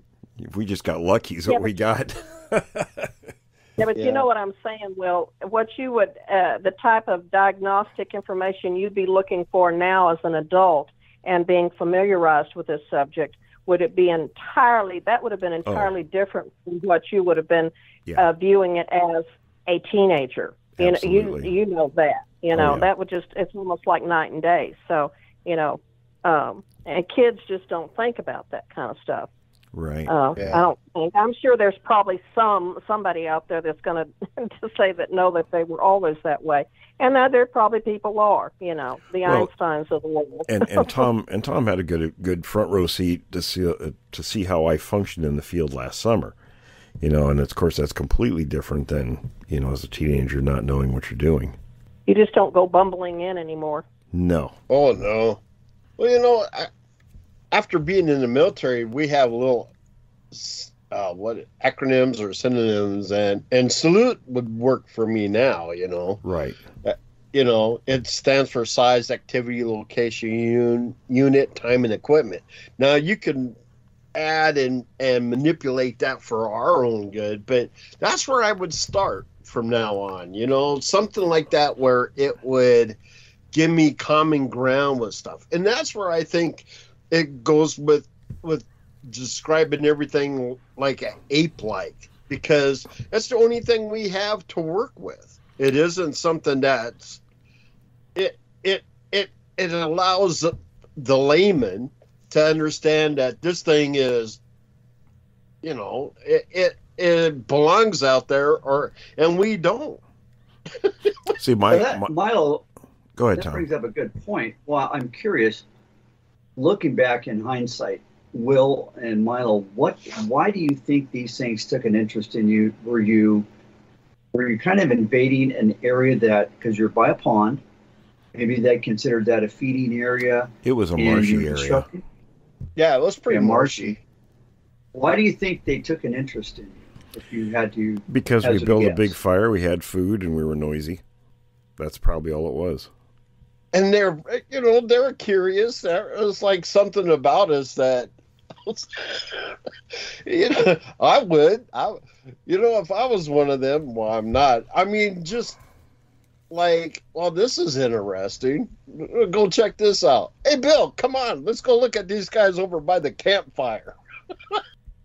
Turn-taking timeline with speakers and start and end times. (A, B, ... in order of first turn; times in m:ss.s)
0:00.4-0:03.1 A
0:03.8-0:29.3 B
0:04.0-0:04.2 C
0:15.6-0:15.9 A
0:20.8-0:21.5 A
0:22.5-0:22.9 A
0:29.7-0:30.6 A
0:30.1-0:40.9 B
0:30.4-0:30.6 C
0:39.2-0:39.5 A
0:40.5-0:46.4 A
0:47.0-0:51.6 A
0:52.1-0:53.8 B
0:54.1-0:54.6 A
0:54.7-0:55.4 C
0:56.0-0:56.7 C
0:57.5-0:59.7 C
1:00.3-1:06.2 C
1:06.2-1:06.6 A
1:06.8-1:13.6 C
1:14.1-1:23.0 C
1:23.5-1:37.2 C
1:38.1-1:44.4 C
1:45.6-1:50.0 C
1:50.8-1:51.3 C
1:51.4-1:52.1 A
1:51.7-1:52.6 D
1:53.2-1:53.7 A
1:53.3-1:55.6 D
1:56.6-2:03.4 D
2:04.3-2:07.6 D
2:08.3-2:12.0 D
2:10.6-2:11.9 A
2:12.8-2:14.0 C
2:13.3-2:14.0 D
2:14.9-2:19.1 D
2:18.1-2:21.0 A
2:21.8-2:22.9 A
2:23.7-2:28.1 C
2:28.6-2:29.5 C
2:30.2-2:35.6 C
2:36.5-2:43.9 C